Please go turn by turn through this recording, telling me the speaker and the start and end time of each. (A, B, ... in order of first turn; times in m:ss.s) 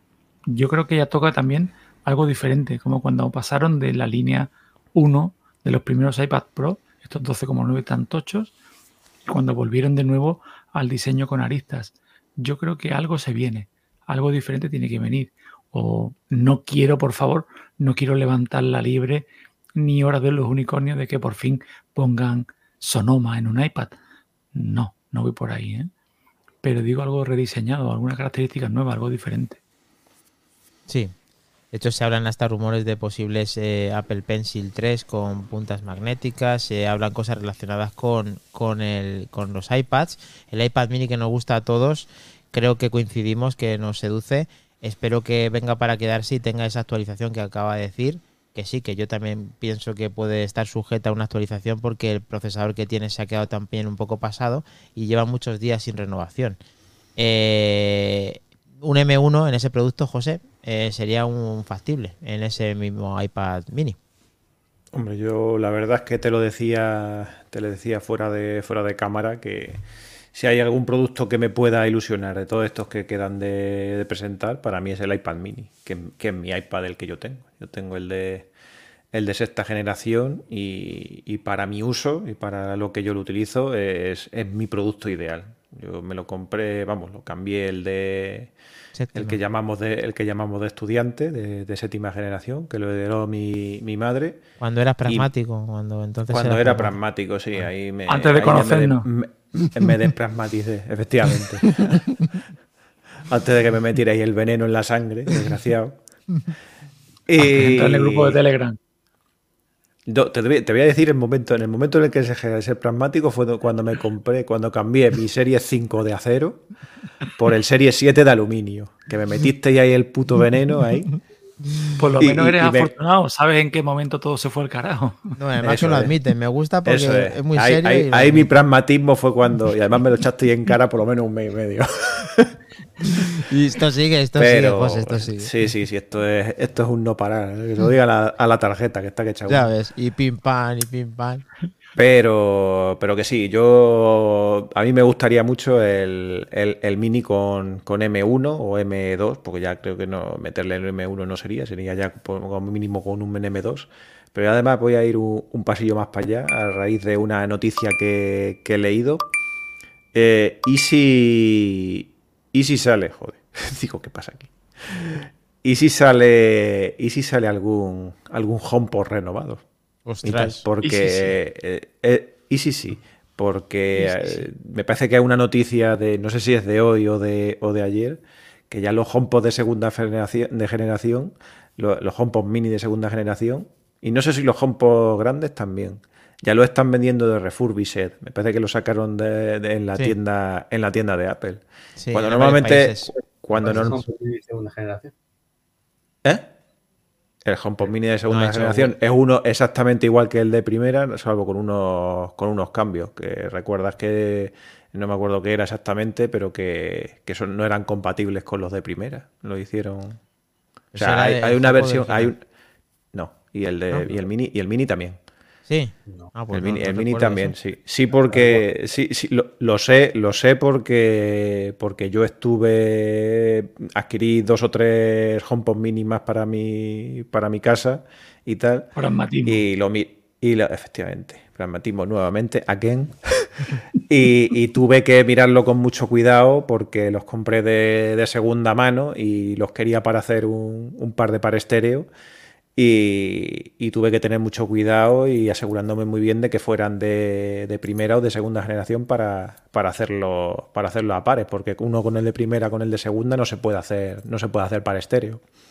0:00.5-0:08.5 A
0:09.2-0:23.9 A
0:24.5-0:25.9 A
0:26.6-0:29.6 A
0:30.9-0:31.1 B
0:31.7-0:56.6 B
0:57.2-1:04.0 B
1:04.9-1:09.8 C
1:10.3-1:18.5 C
1:19.1-1:28.5 C
1:28.9-1:29.4 B
1:29.1-1:34.4 C
1:34.6-1:37.0 B
1:36.3-1:42.1 C
1:38.1-1:39.1 A
1:43.2-1:46.0 C
1:47.3-1:48.4 C
1:47.4-1:48.8 A
1:50.1-1:56.6 C
1:57.3-2:01.1 C
2:02.0-2:05.4 A
2:02.2-2:02.9 C
2:05.4-2:08.5 B
2:05.6-2:06.1 C
2:06.8-2:13.2 C
2:13.4-2:15.5 B
2:14.4-2:19.7 C
2:19.5-2:21.4 B
2:22.0-2:39.2 C
2:40.1-2:49.6 C
2:50.0-2:50.6 B
2:50.2-3:14.0 C
2:50.8-2:51.4 A
3:12.0-3:13.1 B
3:13.5-3:15.1 D
3:13.6-3:14.0 B
3:16.2-3:16.5 C
3:17.4-3:30.2 C
3:18.3-3:18.9 B
3:30.9-3:32.3 B
3:30.9-3:32.4 C
3:33.1-3:35.2 C
3:35.7-3:37.6 B
3:36.5-3:48.9 C
3:38.1-3:38.6 D
3:49.0-3:49.6 A
3:49.4-4:02.1 C
4:02.8-4:15.4 C